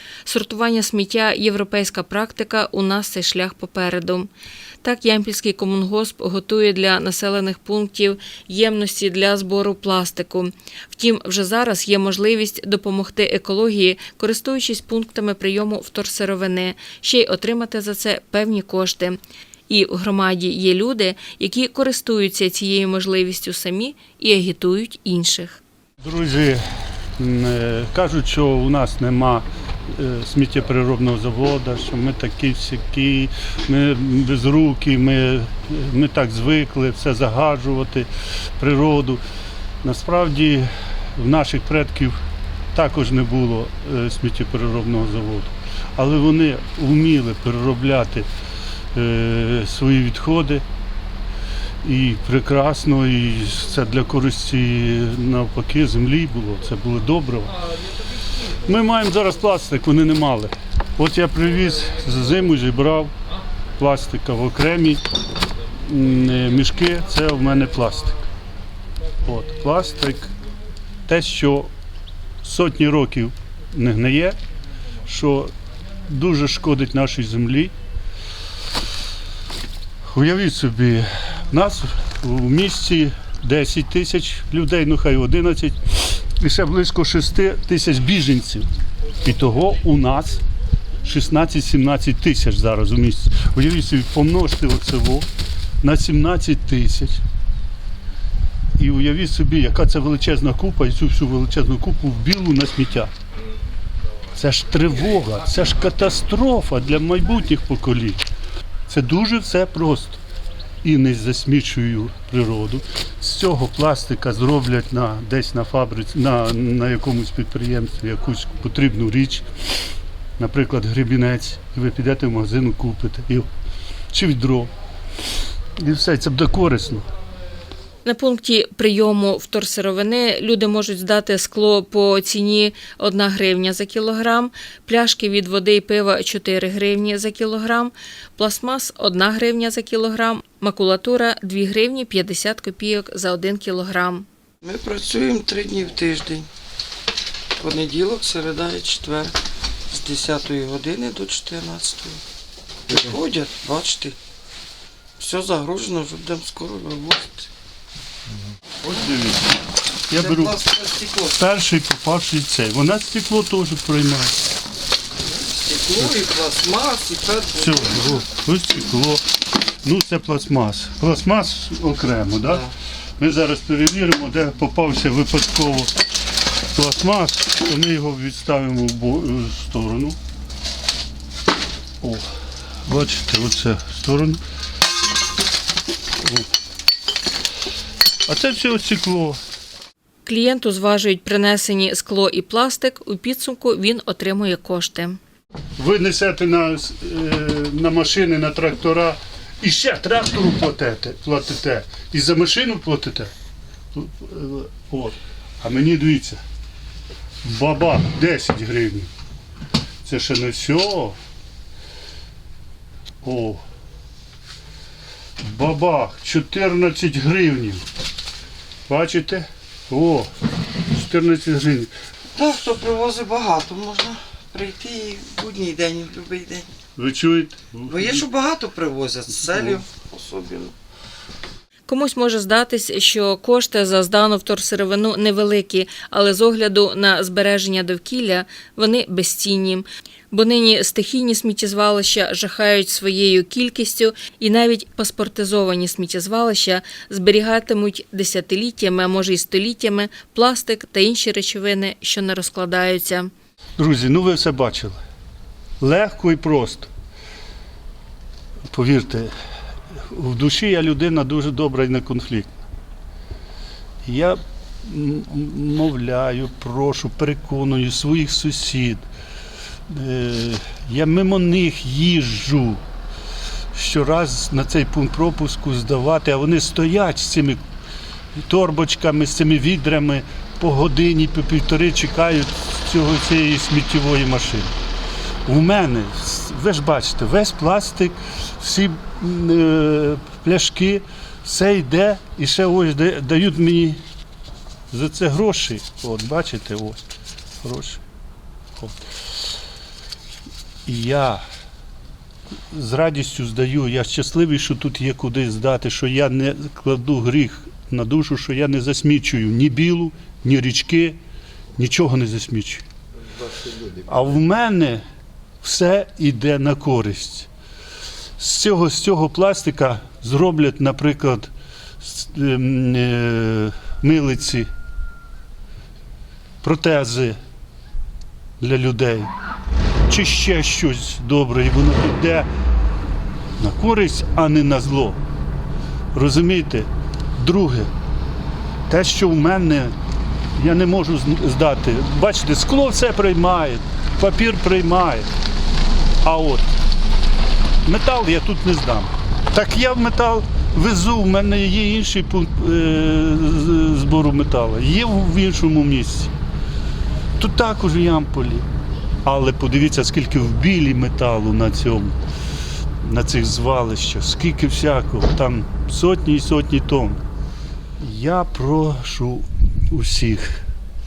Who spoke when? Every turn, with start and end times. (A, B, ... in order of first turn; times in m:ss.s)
0:00.2-0:04.3 A
0:04.8-0:25.6 A
0:26.0-0:26.6 B
0:27.2-0:39.2 B
0:39.8-0:42.2 B
0:42.7-0:48.3 B
0:48.9-0:50.6 B
0:51.8-0:57.6 B
0:58.6-1:03.1 B
1:03.8-1:05.0 B
1:05.8-1:08.2 B
1:09.2-1:10.3 B
1:11.1-1:11.7 B
1:12.4-1:14.4 B
1:15.0-1:15.5 B
1:16.1-1:17.7 B
1:20.0-1:28.7 B
1:29.2-1:30.4 B
1:31.0-1:35.3 B
1:35.8-1:37.2 B
1:38.8-1:43.1 B
1:44.3-1:48.2 B
1:48.9-1:50.2 B
1:50.8-1:59.5 B
2:00.4-2:03.5 B
2:04.1-2:04.7 B
2:05.8-2:07.1 B
2:08.0-2:24.2 A
2:24.6-2:26.5 C
2:27.6-2:29.4 C
2:29.9-2:32.2 C
2:32.9-2:34.2 C
2:35.2-2:37.5 C
2:38.8-2:39.5 B
2:40.1-2:40.6 B
2:40.1-2:41.4 C
2:41.3-2:44.5 B
2:45.2-2:48.2 C
2:47.6-2:49.3 B
2:49.8-2:56.0 B
2:56.7-3:00.2 B
3:02.0-3:02.2 B
3:02.8-3:04.4 B
3:06.2-3:06.5 B
3:08.3-3:09.4 B
3:10.2-3:15.2 A
3:15.8-3:23.3 B
3:23.9-3:26.4 B
3:27.4-3:29.1 B
3:30.0-3:31.2 B
3:33.2-3:33.6 B
3:35.4-3:37.8 B
3:38.9-3:40.3 B
3:40.9-3:41.9 B
3:42.3-3:46.7 C
3:47.0-3:48.2 B
3:47.8-3:50.7 C
3:51.9-4:13.3 A
4:13.8-4:15.0 B
4:15.8-4:16.9 B
4:18.7-4:19.3 B
4:20.1-4:22.5 B
4:24.0-4:29.0 B
4:29.9-4:32.8 B
4:33.7-4:37.6 B
4:38.4-4:44.7 B
4:45.4-4:54.0 B
4:54.9-4:57.0 B
4:57.6-4:58.0 B
4:58.8-4:59.0 B
5:00.8-5:01.4 B
5:02.7-5:11.2 B
5:11.8-5:12.8 B
5:13.9-5:15.0 B
5:15.6-5:17.5 B
5:18.4-5:24.7 B
5:26.6-5:27.4 B
5:28.6-5:29.3 B
5:30.1-5:32.5 B
5:33.6-5:35.2 B
5:36.1-5:37.9 B
5:38.9-5:39.9 B
5:40.6-5:45.3 B
5:46.2-5:46.8 B
5:47.8-5:56.3 B
5:57.4-5:58.6 B
5:59.2-6:02.2 B
6:03.0-6:07.2 B
6:08.0-6:10.6 B